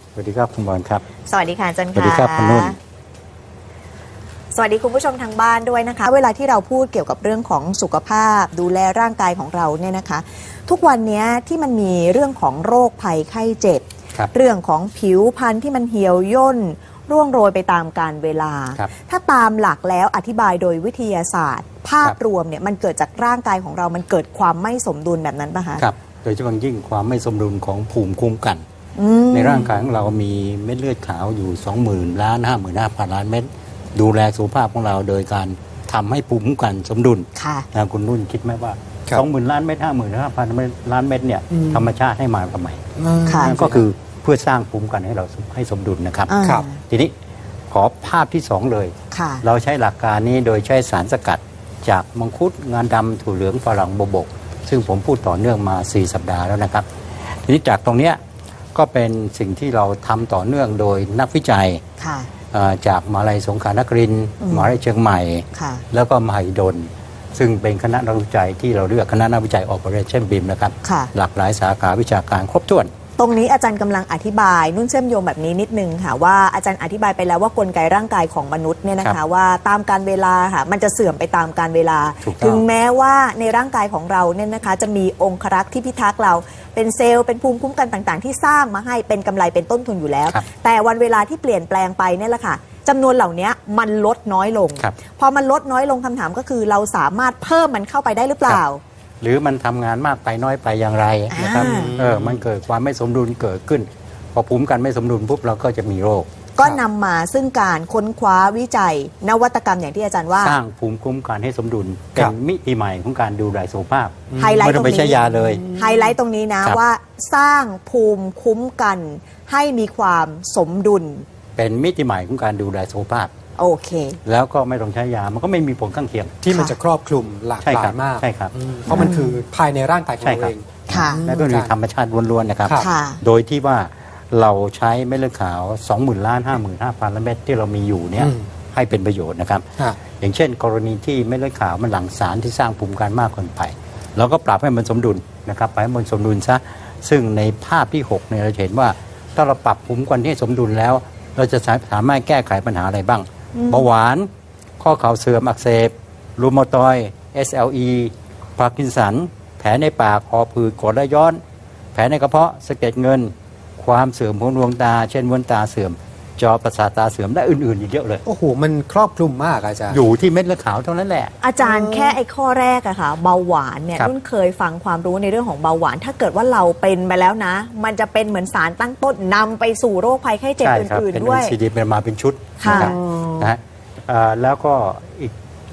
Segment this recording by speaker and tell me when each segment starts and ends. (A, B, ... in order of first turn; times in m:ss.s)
0:00.2-0:01.0 A
0:01.3-0:02.8 B
0:01.9-0:02.8 A
0:04.5-0:25.8 B
0:25.8-0:28.6 A
0:29.0-0:29.6 B
0:29.3-0:42.8 A
0:37.4-0:37.6 B
0:41.5-0:41.8 C
0:43.0-0:43.8 C
0:43.2-0:43.6 B
0:43.4-0:46.3 A
0:46.3-0:46.7 B
0:46.8-0:47.1 A
0:47.7-0:56.9 A
0:49.1-0:49.4 B
0:57.4-0:58.2 A
0:58.7-1:01.8 A
1:02.0-1:02.3 B
1:02.5-1:12.9 A
1:04.4-1:04.7 B
1:05.5-1:05.8 B
1:10.8-1:11.1 B
1:13.2-1:38.8 B
1:22.2-1:22.6 A
1:39.2-1:46.5 A
1:41.3-1:42.0 B
1:41.5-1:42.4 C
1:46.6-1:50.6 B
1:50.4-1:55.7 A
1:54.3-1:54.6 C
1:54.4-1:55.2 B
1:55.4-1:56.1 C
1:55.7-2:01.2 B
2:01.6-2:03.3 A
2:03.6-2:04.2 B
2:04.2-2:06.4 A
2:06.4-2:11.7 C
2:06.5-2:06.8 B
2:07.6-2:08.5 A
2:08.9-2:09.3 B
2:10.2-2:10.5 A
2:10.9-2:11.3 B
2:11.3-2:34.3 A
2:12.6-2:12.9 C
2:12.8-2:13.2 B
2:33.5-2:33.9 B
2:34.8-2:41.4 A
2:41.9-2:48.2 A
2:48.2-2:50.0 C
2:49.9-2:51.3 A
2:51.4-3:01.5 B
2:51.6-2:52.2 C
3:00.6-3:05.3 A
3:02.6-3:02.9 B
3:02.6-3:03.5 C